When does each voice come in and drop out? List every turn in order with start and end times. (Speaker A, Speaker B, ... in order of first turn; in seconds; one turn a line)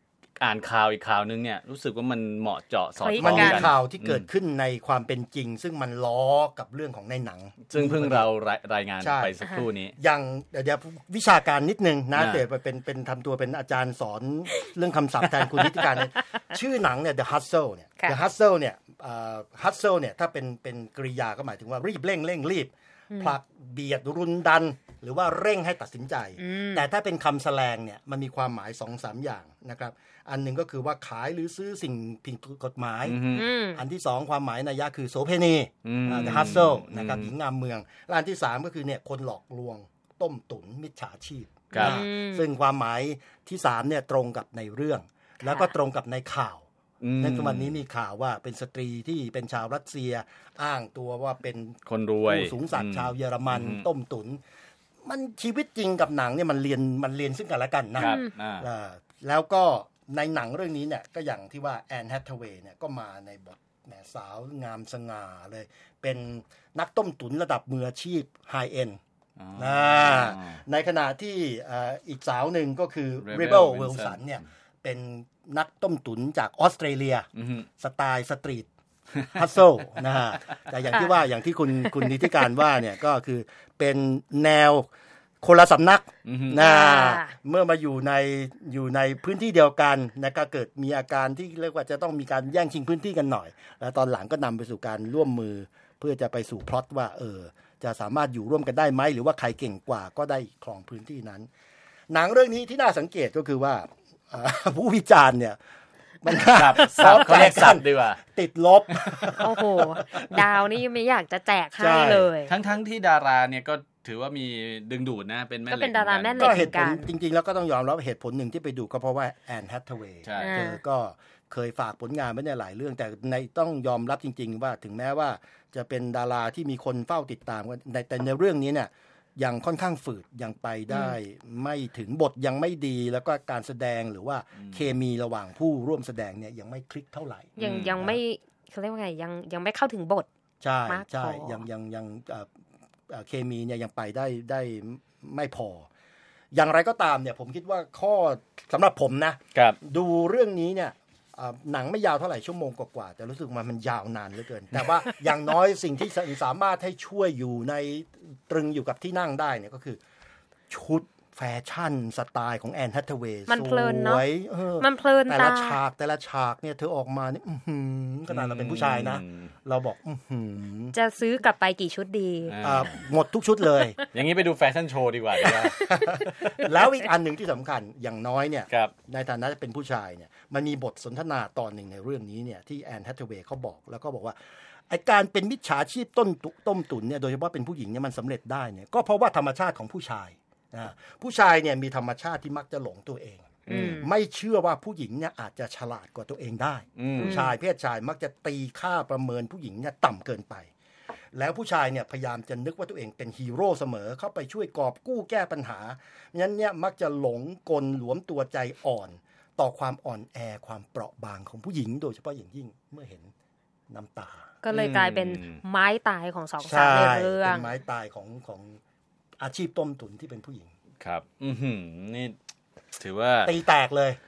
Speaker A: 0.4-4.2
Speaker B: 3.0-3.7
Speaker C: 3.2-8.3
Speaker A: 7.7-9.9
Speaker C: 9.0-9.4
Speaker B: 9.4-9.7
Speaker C: 10.0-46.6
Speaker A: 12.1-12.4
Speaker B: 26.4-26.8
Speaker A: 33.0-33.5
Speaker B: 33.3-33.8
Speaker A: 35.8-37.3
Speaker A: 41.7-42.0
Speaker B: 41.7-42.5
Speaker B: 45.4-45.7
Speaker A: 47.0-47.8
Speaker C: 47.2-54.4
Speaker A: 51.9-53.9
Speaker C: 55.0-69.0
Speaker A: 58.0-58.7
Speaker B: 58.0-58.3
Speaker A: 69.4-70.6
Speaker C: 69.5-77.3
Speaker A: 73.2-74.3
Speaker A: 77.3-77.7
Speaker C: 77.8-78.7
Speaker C: 79.3-84.9
Speaker B: 82.0-82.3
Speaker C: 85.4-101.5
Speaker A: 86.2-86.6
Speaker B: 86.6-87.3
Speaker C: 102.1-105.6
Speaker C: 106.2-110.5
Speaker A: 106.5-108.2
Speaker B: 106.9-107.2
Speaker B: 109.3-112.5
Speaker C: 111.8-112.3
Speaker A: 112.5-116.7
Speaker B: 115.7-117.1
Speaker C: 116.4-138.2
Speaker A: 120.2-120.6
Speaker B: 120.4-120.8
Speaker B: 130.9-131.2
Speaker A: 134.5-134.9
Speaker B: 137.6-140.3
Speaker A: 137.6-138.0
Speaker C: 140.6-142.5
Speaker B: 140.8-141.6
Speaker C: 143.1-145.9
Speaker C: 146.5-160.0
Speaker C: 160.7-170.9
Speaker B: 163.5-164.3
Speaker B: 164.8-165.8
Speaker A: 168.3-169.5
Speaker B: 170.9-172.6
Speaker A: 172.5-173.0
Speaker C: 172.6-174.0
Speaker A: 174.1-175.8
Speaker C: 175.4-184.4
Speaker C: 184.9-200.7
Speaker B: 193.7-194.1
Speaker A: 193.7-194.0
Speaker A: 197.0-197.4
Speaker B: 197.2-197.6
Speaker C: 201.3-213.3
Speaker C: 213.9-214.5
Speaker B: 214.6-217.7
Speaker A: 214.7-215.6
Speaker C: 216.6-218.8
Speaker C: 219.4-220.7
Speaker A: 221.0-222.3
Speaker A: 223.0-223.5
Speaker C: 223.4-224.2